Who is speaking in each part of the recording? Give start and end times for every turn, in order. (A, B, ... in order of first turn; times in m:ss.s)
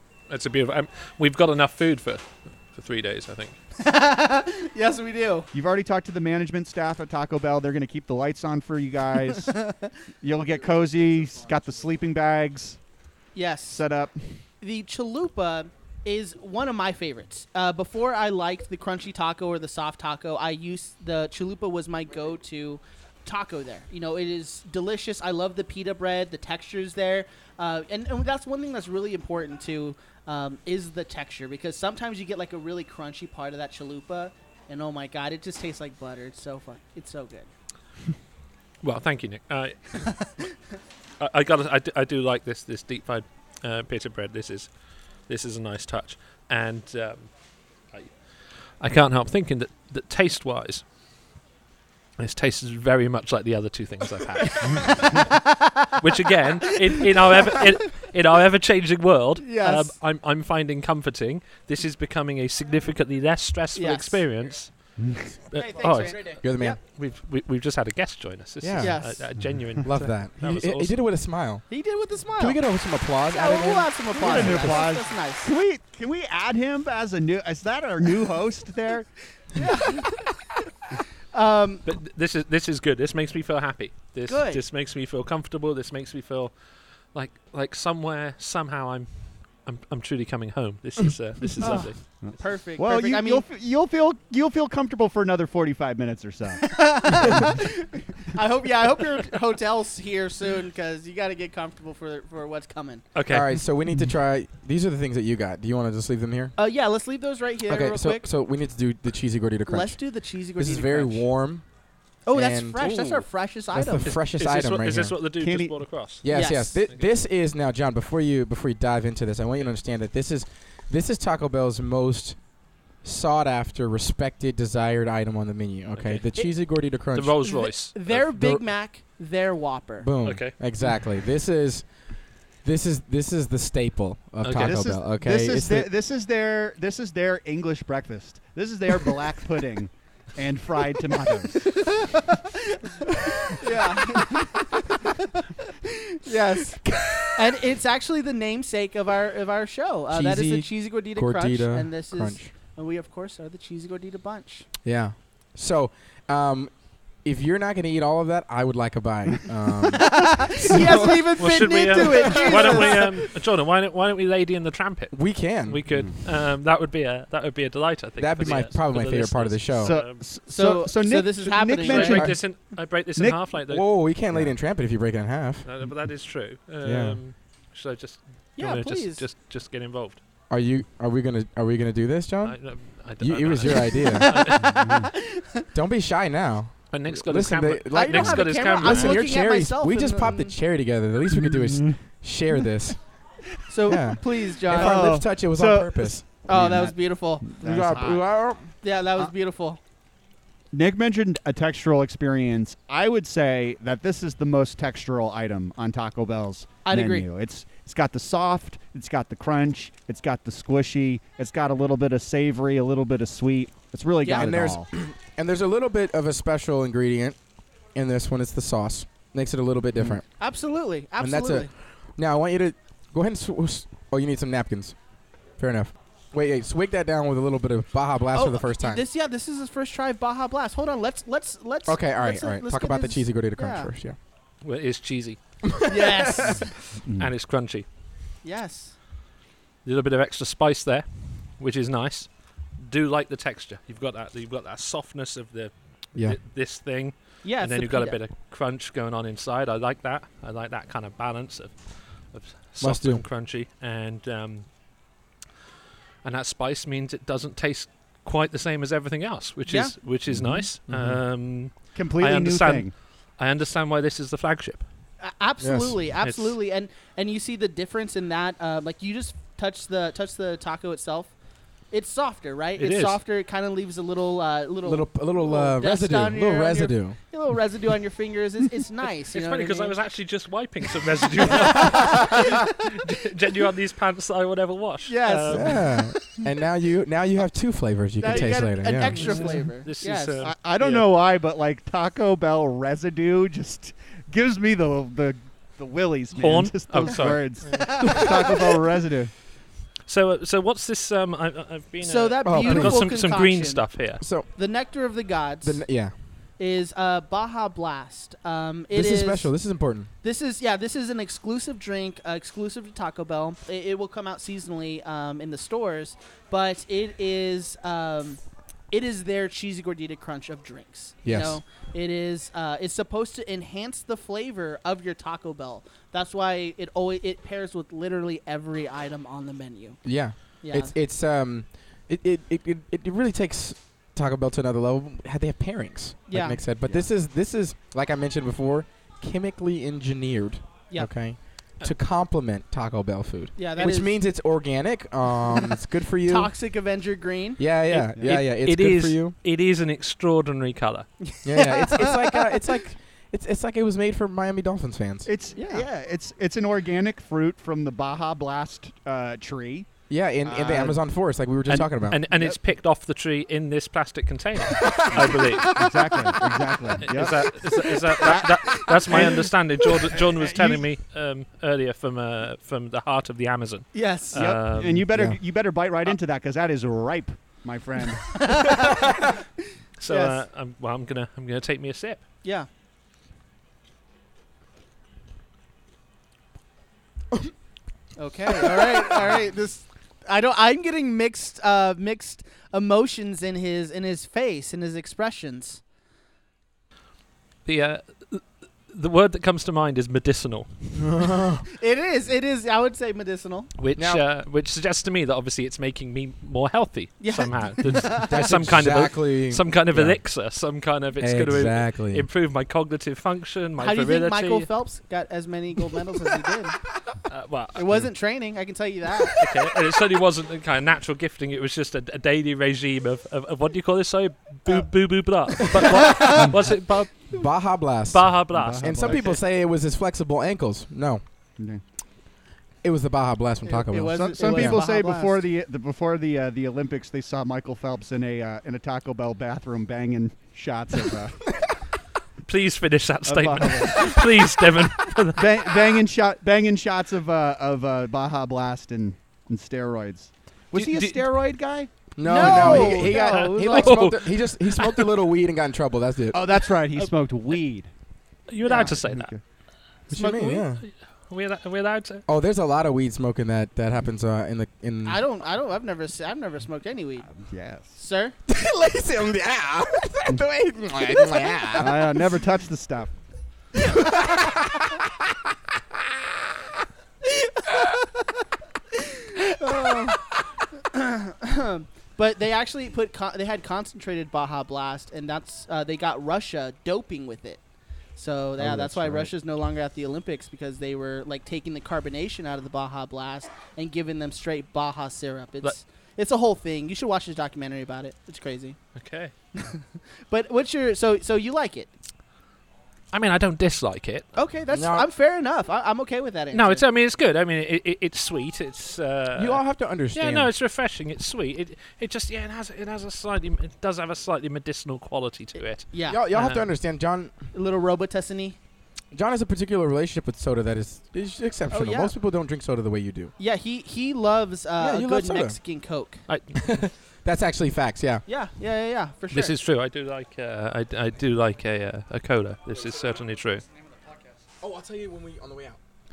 0:00.3-0:03.6 A
0:03.8-0:05.5 B
0:05.5-0:09.7 C
0:09.6-0:09.9 B
0:10.2-0:12.8 C
0:13.4-0:13.8 B
0:13.7-0:14.2 C
0:14.6-0:37.5 B
0:38.8-0:40.4 A
0:41.2-0:44.7 A
0:45.3-0:47.3 A
0:48.8-0:50.8 A
0:52.2-1:04.7 A
0:54.7-0:56.0 B
0:56.8-0:57.7 B
0:59.4-0:59.9 B
1:03.8-1:04.2 B
1:05.0-1:05.4 C
1:05.5-1:11.0 A
1:05.5-1:06.8 B
1:06.3-1:06.8 D
1:08.6-1:09.1 D
1:08.8-1:09.3 B
1:09.4-1:09.8 C
1:09.8-1:11.6 D
1:11.7-1:12.6 B
1:12.4-1:14.9 D
1:13.3-1:15.5 B
1:14.2-1:19.1 C
1:19.6-1:20.4 B
1:21.3-1:21.9 B
1:21.9-1:26.5 A
1:24.3-1:24.6 B
1:27.1-1:32.0 A
1:31.6-1:37.5 C
1:31.6-1:33.4 B
1:36.6-1:43.0 B
1:43.2-1:43.6 A
1:43.3-1:46.6 D
1:46.6-1:48.3 B
1:47.7-1:50.0 D
1:49.7-1:51.2 B
1:50.6-1:51.6 D
1:52.3-1:54.1 B
1:52.3-1:53.0 D
1:52.8-1:53.2 A
1:53.7-1:55.2 D
1:54.0-1:56.3 A
1:55.4-1:55.8 C
1:56.2-2:02.4 D
1:56.3-1:56.8 B
1:56.9-1:57.2 A
2:03.0-2:07.5 D
2:06.0-2:06.4 A
2:07.1-2:08.2 A
2:07.4-2:10.1 B
2:08.2-2:08.6 D
2:10.0-2:11.8 D
2:10.2-2:10.6 A
2:12.6-2:15.9 D
2:14.4-2:15.0 A
2:15.2-2:22.2 C
2:21.6-2:26.8 B
2:27.4-2:34.7 B
2:30.1-2:32.5 D
2:34.8-2:36.7 D
2:37.2-2:41.2 D
2:40.0-2:43.2 B
2:40.8-2:50.2 A
2:45.1-2:45.8 D
2:48.2-2:50.0 D
2:49.8-2:52.4 C
2:50.5-2:52.3 B
2:51.8-2:53.9 A
2:53.7-2:55.7 D
2:55.6-3:00.2 A
2:56.8-2:57.2 D
2:58.6-2:59.2 B
3:00.5-3:02.6 D
3:02.4-3:04.8 A
3:03.2-3:04.4 D
3:04.0-3:05.7 B
3:04.7-3:05.1 C
3:05.7-3:13.0 D
3:06.9-3:09.2 A
3:07.9-3:10.6 B
3:11.3-3:12.0 C
3:13.7-3:15.2 B
3:13.9-3:16.2 D
3:14.7-3:18.2 C
3:16.5-3:17.5 B
3:17.6-3:18.6 D
3:18.8-3:19.8 B
3:20.7-3:34.9 C
3:26.8-3:27.3 B
3:34.2-3:34.5 B
3:34.3-3:37.4 D
3:37.9-3:40.2 D
3:40.4-3:41.7 B
3:41.2-3:45.0 D
3:45.6-3:49.0 D
3:48.3-3:53.9 B
3:51.9-3:54.2 D
3:54.6-3:55.4 A
3:55.7-3:56.7 D
3:55.9-3:56.7 B
3:57.0-3:57.9 A
3:57.0-3:57.3 C
3:58.4-3:59.0 B
3:59.8-4:14.7 A
4:07.4-4:08.2 B
4:12.8-4:13.2 D
4:16.2-4:24.8 A
4:19.7-4:19.9 B
4:20.3-4:20.7 C
4:20.9-4:21.2 D
4:22.0-4:22.9 C
4:25.2-4:31.3 B
4:25.6-4:26.0 D
4:26.2-4:26.6 A
4:31.9-4:40.0 B
4:32.8-4:33.2 A
4:34.8-4:37.2 D
4:39.3-4:45.8 A
4:41.4-4:42.7 B
4:45.1-4:46.4 B
4:45.5-4:49.5 D
4:48.2-4:50.5 B
4:49.1-4:51.1 A
4:50.4-4:59.3 C
4:56.4-4:58.2 A
4:57.7-4:58.6 B
5:00.1-5:04.2 A
5:02.0-5:04.0 B
5:02.4-5:03.1 D
5:04.2-5:04.5 D
5:04.5-5:05.8 B
5:05.6-5:06.1 D
5:06.6-5:09.5 B
5:08.9-5:10.1 D
5:10.2-5:30.0 B
5:21.2-5:21.6 D
5:30.0-5:46.5 D
5:30.6-5:30.9 B
5:36.3-5:36.6 B
5:43.6-5:44.2 B
5:45.5-5:48.1 B
5:47.6-5:49.4 D
5:48.2-5:51.1 A
5:51.2-5:52.7 B
5:51.4-5:55.3 D
5:55.3-5:59.9 C
5:55.6-5:55.9 B
6:00.1-6:02.2 D
6:00.4-6:01.0 C
6:01.7-6:02.6 C
6:02.1-6:05.9 A
6:05.1-6:10.8 C
6:05.3-6:05.9 B
6:07.0-6:15.1 A
6:07.7-6:09.2 B
6:13.9-6:14.4 B
6:14.4-6:18.7 C
6:15.1-6:15.4 D
6:18.3-6:19.4 B
6:20.0-6:22.2 A
6:20.1-6:20.4 B
6:28.2-6:35.8 B
6:28.5-6:29.2 D
6:37.6-6:41.1 A
6:41.0-6:41.7 D
6:41.7-6:43.7 B
6:43.8-6:54.7 A
6:44.0-6:44.2 D
6:47.2-6:48.5 B
6:48.3-6:50.2 D
6:51.2-6:52.3 D
6:53.8-6:56.8 B
6:57.3-6:58.0 A
6:57.8-6:59.5 B
6:59.4-7:07.4 A
7:05.8-7:06.5 D
7:06.0-7:06.5 B
7:07.3-7:11.2 D
7:08.1-7:09.4 A
7:08.5-7:09.4 C
7:12.8-7:14.8 D
7:13.6-7:15.4 B
7:14.1-7:21.6 C
7:22.5-7:25.9 A
7:23.2-7:24.3 C
7:25.3-7:33.1 C
7:30.7-7:31.3 A
7:32.2-7:36.4 D
7:32.2-7:34.0 B
7:32.4-7:35.2 A
7:36.3-7:37.9 C
7:38.5-7:39.3 A
7:38.6-7:39.4 C
7:40.1-7:40.8 D
7:40.1-7:40.6 B
7:40.2-7:42.3 A
7:42.3-7:45.2 D
7:45.0-7:47.3 B
7:47.3-7:47.9 C
7:47.9-7:48.4 B
7:48.5-7:52.2 D
7:51.8-7:53.1 C
7:53.8-7:54.3 B
7:53.8-7:55.0 D
7:57.4-7:58.3 B
7:59.0-8:07.6 B
8:08.2-8:18.8 B
8:08.6-8:09.3 D
8:08.7-8:09.1 C
8:19.0-8:19.3 A
8:19.6-8:21.9 B
8:23.1-8:24.3 A
8:24.4-8:26.8 B
8:24.7-8:25.1 D
8:26.5-8:36.6 A
8:29.4-8:30.5 D
8:35.8-8:36.6 B
8:36.1-8:37.4 D
8:37.5-8:38.6 B
8:39.1-8:43.3 D
8:41.7-8:42.1 B
8:43.4-8:46.2 B
8:44.8-8:45.6 D
8:46.3-8:46.6 A
8:46.6-8:48.2 D
8:48.3-8:49.6 B
8:49.3-8:53.6 A
8:54.6-8:55.8 D